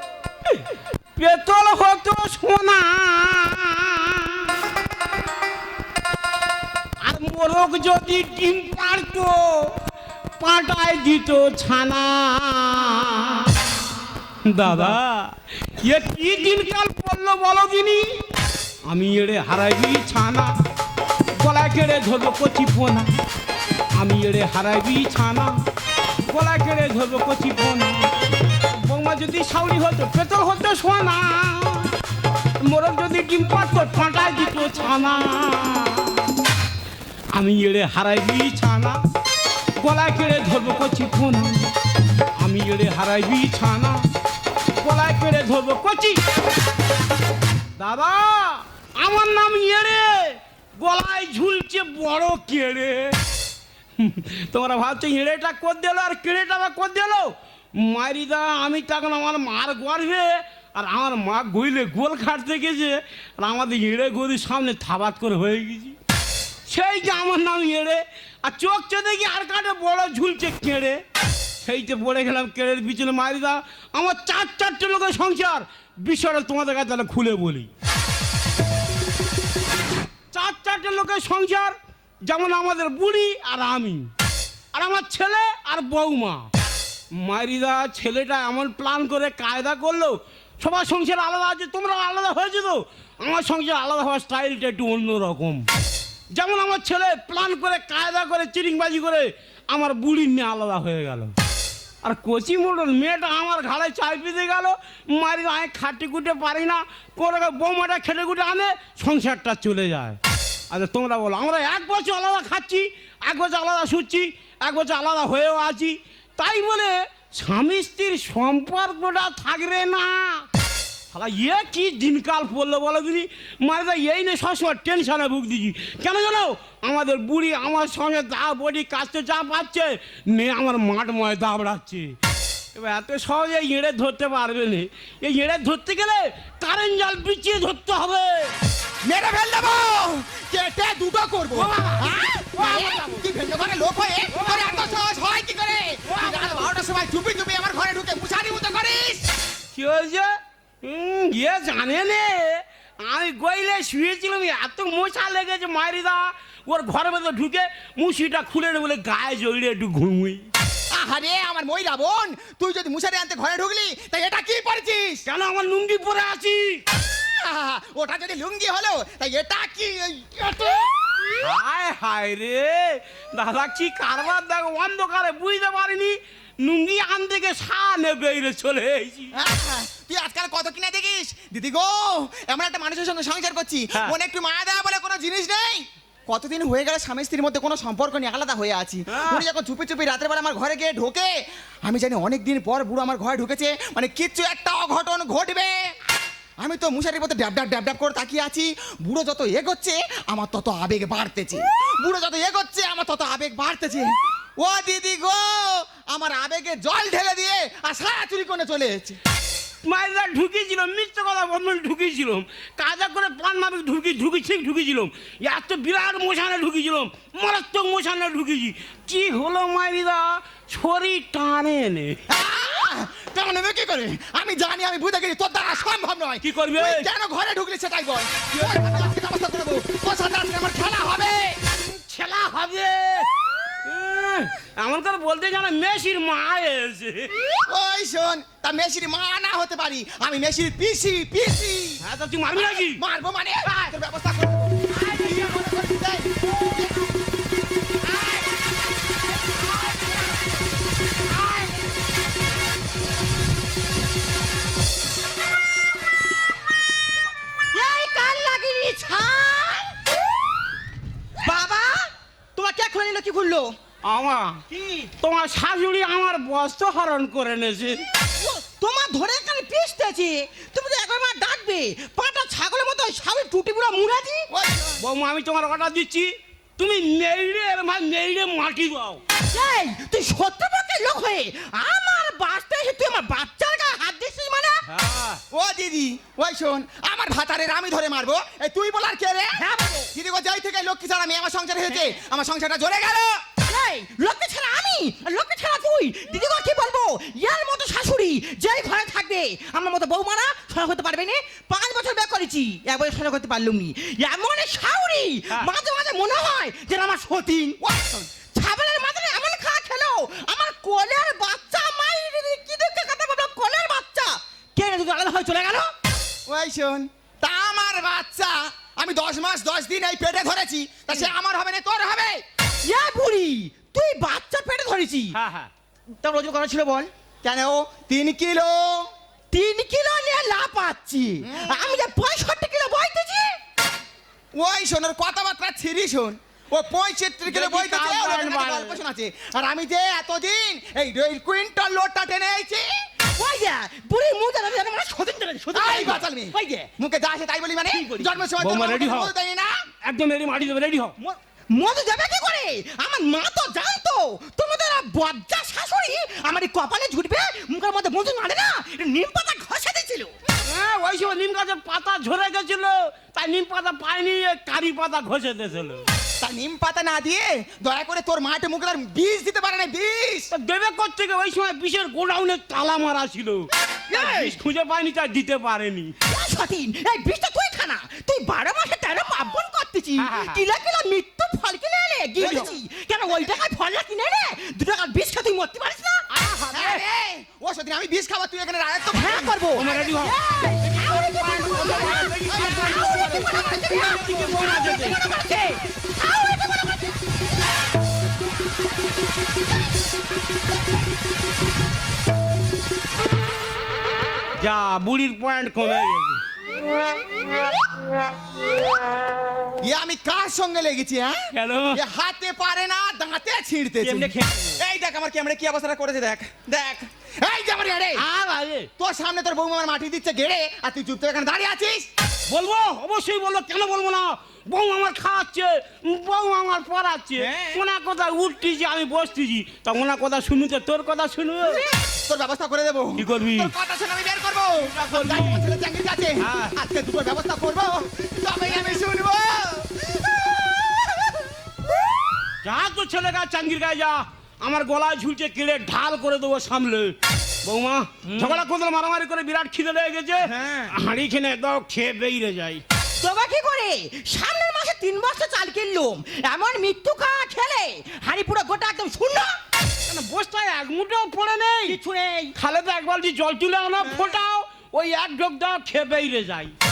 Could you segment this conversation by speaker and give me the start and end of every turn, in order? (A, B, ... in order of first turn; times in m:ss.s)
0:00.4-0:04.7 A
0:07.0-0:09.8 A
0:10.4-0:13.6 A
0:14.4-0:18.2 A
0:18.9-0:20.5 A
0:21.4-0:23.1 A
0:23.9-0:25.5 A
0:26.3-0:32.0 A
0:32.6-0:36.3 A
0:37.3-0:39.0 A
0:39.8-0:41.7 A
0:42.4-0:44.0 A
0:44.8-0:46.2 A
0:47.8-0:53.2 A
0:54.0-1:06.0 A
1:06.7-1:11.0 A
1:11.6-1:17.7 A
1:20.3-1:24.1 A
1:24.7-1:26.5 A
1:27.1-1:35.7 A
1:36.3-1:41.3 A
1:42.0-1:50.2 A
1:50.7-2:00.5 A
2:01.1-2:12.1 A
2:12.8-2:18.6 A
2:19.0-2:29.3 B
2:21.5-2:23.2 A
2:24.3-2:25.0 A
2:26.1-2:26.7 A
2:29.7-2:40.5 A
2:40.9-2:45.2 B
2:45.3-2:46.8 A
2:47.2-2:50.9 B
2:51.4-2:59.3 A
2:59.4-3:11.3 B
3:09.1-3:09.5 A
3:11.8-3:15.9 B
3:16.6-3:29.2 B
3:29.8-3:42.2 A
3:42.3-3:51.6 B
3:46.4-3:47.1 A
3:48.5-3:48.8 A
3:51.7-3:53.3 A
3:53.8-3:57.4 A
3:57.7-4:02.0 B
4:02.0-4:03.0 A
4:02.5-4:07.0 B
4:04.9-4:05.5 A
4:17.7-4:20.0 C
4:21.4-4:23.8 C
4:24.0-4:24.6 A
4:24.7-4:25.1 C
4:25.2-4:28.1 A
4:28.4-4:34.5 C
4:34.5-4:35.0 B
4:35.0-4:39.2 A
4:39.5-4:44.8 C
4:44.9-4:45.4 A
4:45.5-4:49.6 B
4:49.6-4:50.1 C
4:50.1-4:53.4 B
4:51.9-4:52.2 C
4:53.6-5:07.8 C
5:07.8-5:08.4 B
5:08.4-5:15.9 C
5:16.5-5:22.4 B
5:22.8-5:25.4 C
5:25.3-5:25.7 A
5:26.2-5:27.1 C
5:27.4-5:29.1 B
5:29.5-5:33.6 C
5:31.4-5:31.8 B
5:34.5-5:43.0 B
5:37.5-5:39.0 A
5:43.3-5:46.9 C
5:45.7-5:49.8 B
5:47.9-5:48.4 C
5:48.6-5:49.3 A
5:50.0-5:51.2 A
5:51.2-6:00.4 C
6:00.6-6:06.1 A
6:06.4-6:10.5 B
6:10.5-6:16.1 A
6:14.1-6:14.4 B
6:16.3-6:26.3 C
6:20.2-6:20.6 A
6:22.4-6:22.7 A
6:22.4-6:22.8 B
6:26.3-6:27.0 A
6:26.7-6:29.7 B
6:29.1-6:37.2 C
6:29.8-6:35.2 A
6:32.5-6:34.3 B
6:44.6-6:46.4 A
6:49.8-6:51.4 B
6:51.5-6:52.0 A
6:51.9-6:58.2 B
6:54.0-6:54.8 A
6:58.2-6:58.9 A
6:59.0-7:02.1 B
7:02.5-7:11.8 A
7:12.0-7:20.3 B
7:13.2-7:13.7 A
7:14.9-7:15.6 A
7:16.4-7:16.8 A
7:22.6-7:32.8 A
7:30.5-7:30.8 C
7:33.2-7:39.6 C
7:40.1-7:42.0 A
7:41.9-7:42.5 C
7:42.6-7:46.7 A